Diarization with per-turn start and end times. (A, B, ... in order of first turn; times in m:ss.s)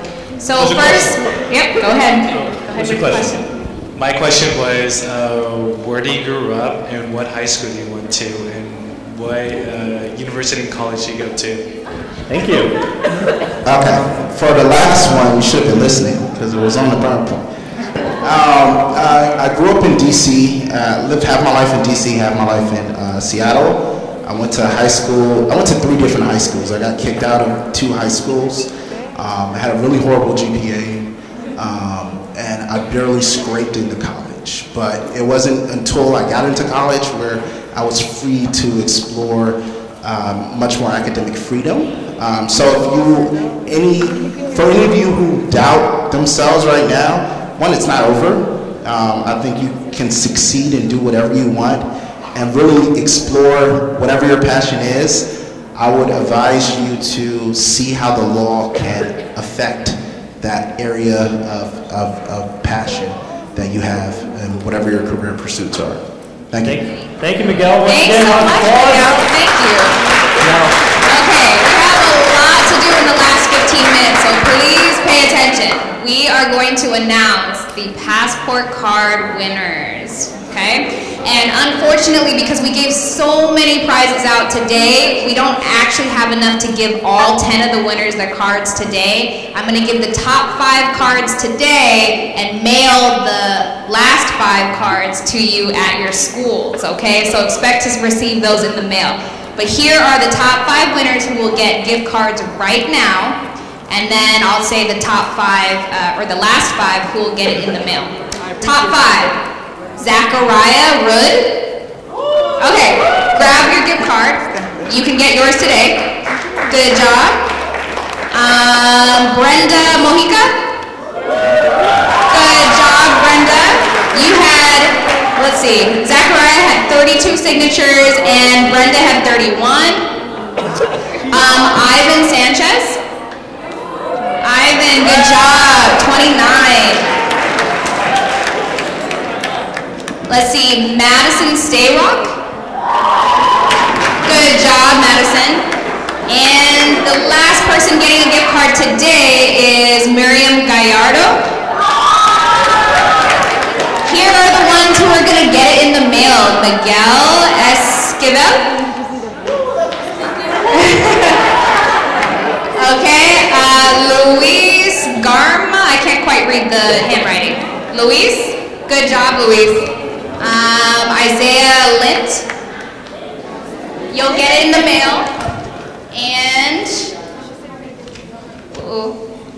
0:00.4-0:02.2 A
0:00.6-0:01.1 B
0:02.3-0:11.7 B
0:12.3-0:12.7 C
0:13.6-0:17.4 D
0:18.2-1:06.0 D
1:06.5-1:06.8 D
1:06.6-1:09.2 C
1:07.8-1:10.0 A
1:10.4-1:10.7 C
1:11.1-1:49.4 A
1:50.0-1:51.5 A
1:52.6-1:56.0 A
1:56.7-1:57.4 A
1:58.3-2:00.5 A
2:02.3-2:10.0 A
2:11.3-2:13.0 A
2:14.4-2:17.0 A
2:20.3-2:22.4 A
2:24.2-2:25.6 A
2:26.3-2:31.4 A
2:34.0-2:38.6 A
2:40.7-2:41.4 A
2:42.8-2:52.4 A
2:54.1-2:55.3 A
2:56.1-2:57.1 A
2:58.7-2:59.2 A